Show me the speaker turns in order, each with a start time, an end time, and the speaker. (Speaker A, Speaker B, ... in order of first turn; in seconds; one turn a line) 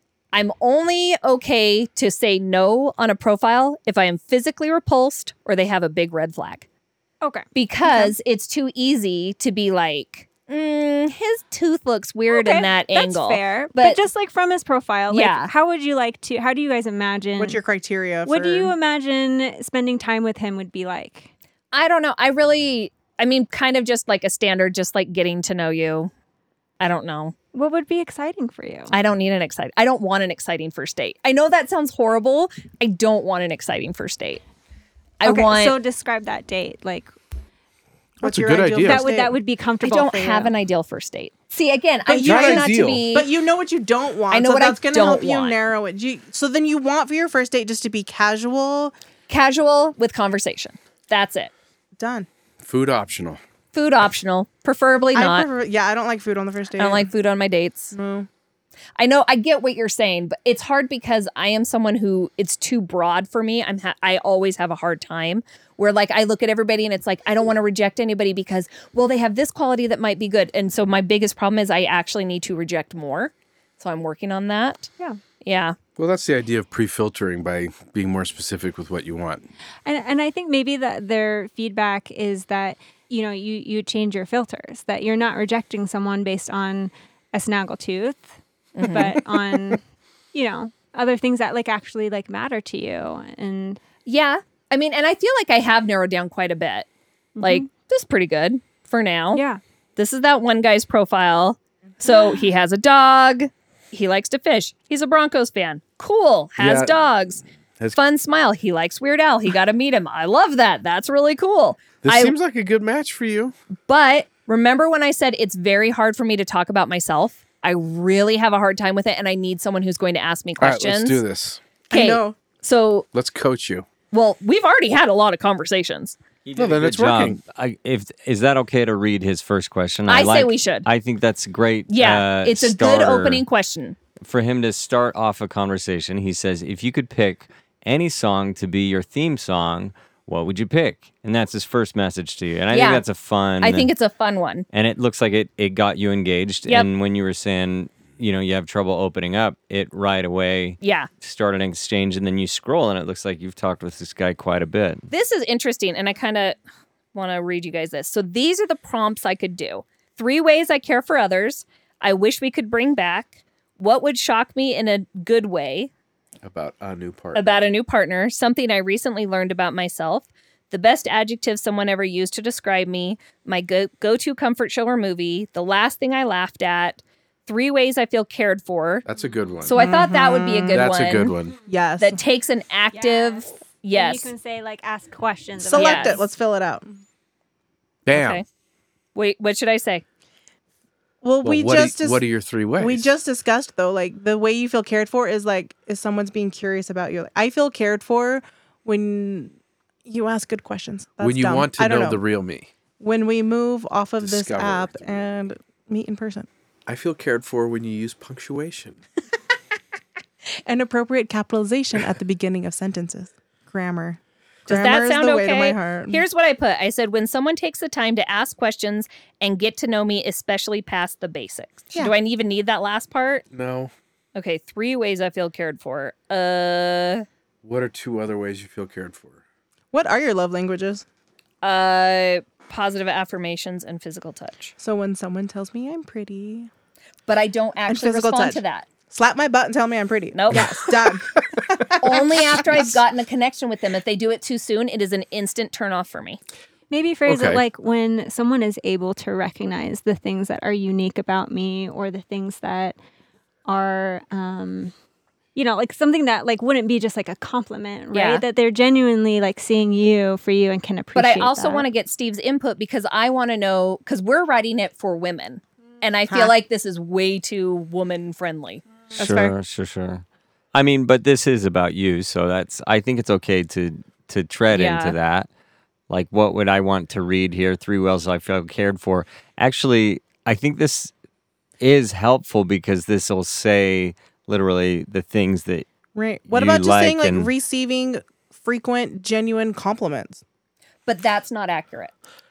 Speaker A: 0.3-6.7
Speaker B: 7.2-7.5
Speaker A: 7.5-14.0
Speaker B: 12.3-17.6
Speaker A: 15.1-15.5
Speaker C: 17.4-18.7
Speaker B: 18.2-21.3
Speaker A: 21.7-26.1
Speaker A: 26.8-27.3
Speaker B: 27.5-28.9
Speaker A: 28.9-34.4
Speaker A: 35.2-35.8
Speaker B: 35.2-37.1
Speaker C: 38.2-39.4
Speaker D: 38.2-39.1
Speaker B: 38.8-40.5
Speaker A: 39.8-43.3
Speaker C: 42.1-48.9
Speaker D: 42.2-43.1
Speaker A: 44.3-45.6
Speaker A: 49.3-51.5
Speaker C: 52.0-52.3
Speaker D: 52.6-53.4
Speaker A: 53.7-55.5
Speaker C: 55.1-57.1
Speaker A: 56.8-57.9
Speaker C: 57.9-58.3
Speaker A: 59.0-74.9
Speaker A: 75.4-75.8
Speaker D: 76.0-79.4
Speaker B: 79.8-88.3
Speaker A: 88.8-89.3
Speaker B: 88.8-93.8
Speaker A: 94.0-96.9
Speaker B: 97.4-97.7
Speaker A: 97.4-99.4
Speaker B: 99.3-99.6
Speaker A: 100.0-107.4
Speaker D: 106.6-106.9
Speaker A: 107.9-112.3
Speaker D: 112.0-113.5
Speaker A: 113.9-121.2
Speaker D: 120.6-121.6
Speaker C: 121.9-122.3
Speaker A: 121.9-123.0
Speaker D: 123.1-123.9
Speaker A: 124.1-126.2
Speaker E: 126.4-133.4
Speaker D: 126.5-127.4
Speaker A: 130.1-130.9
Speaker A: 131.9-134.0
Speaker E: 134.2-143.9
Speaker A: 142.7-143.0
Speaker A: 143.6-144.7
Speaker E: 144.7-155.1
Speaker A: 150.8-151.1
Speaker A: 155.1-156.6
Speaker A: 157.1-165.9
Speaker D: 166.4-167.6
Speaker A: 167.3-179.0
Speaker D: 179.1-179.8
Speaker A: 179.6-181.3
Speaker C: 179.7-180.8
Speaker D: 180.7-181.6
Speaker C: 181.6-182.2
Speaker A: 182.0-184.3
Speaker B: 182.9-186.2
Speaker C: 185.6-187.0
Speaker A: 185.7-186.2
Speaker D: 188.1-188.4
Speaker A: 188.1-188.4
Speaker A: 189.1-190.0
Speaker C: 191.2-192.2
Speaker D: 191.4-193.1
Speaker C: 192.8-199.5
Speaker C: 200.1-202.2
Speaker D: 201.2-202.7
Speaker C: 203.0-206.5
Speaker D: 204.2-205.2
Speaker D: 206.9-209.0
Speaker C: 210.6-216.2
Speaker A: 214.7-223.4
Speaker D: 223.5-223.9
Speaker A: 224.3-227.2
Speaker D: 227.6-229.4
Speaker C: 229.9-231.0
Speaker A: 231.6-234.7
Speaker C: 234.8-236.7
Speaker A: 237.3-238.8
Speaker C: 237.9-243.0
Speaker A: 240.3-240.9
Speaker A: 242.0-246.4
Speaker B: 246.9-252.9
Speaker D: 247.2-247.6
Speaker B: 253.7-254.9
Speaker B: 255.5-261.9
Speaker A: 258.1-258.4
Speaker A: 261.1-268.8
Speaker E: 269.1-275.5
Speaker C: 269.1-269.5
Speaker A: 274.7-275.1
Speaker E: 276.1-281.1
Speaker E: 281.8-285.9
Speaker C: 286.1-290.4
Speaker E: 286.5-287.5
Speaker A: 291.1-292.1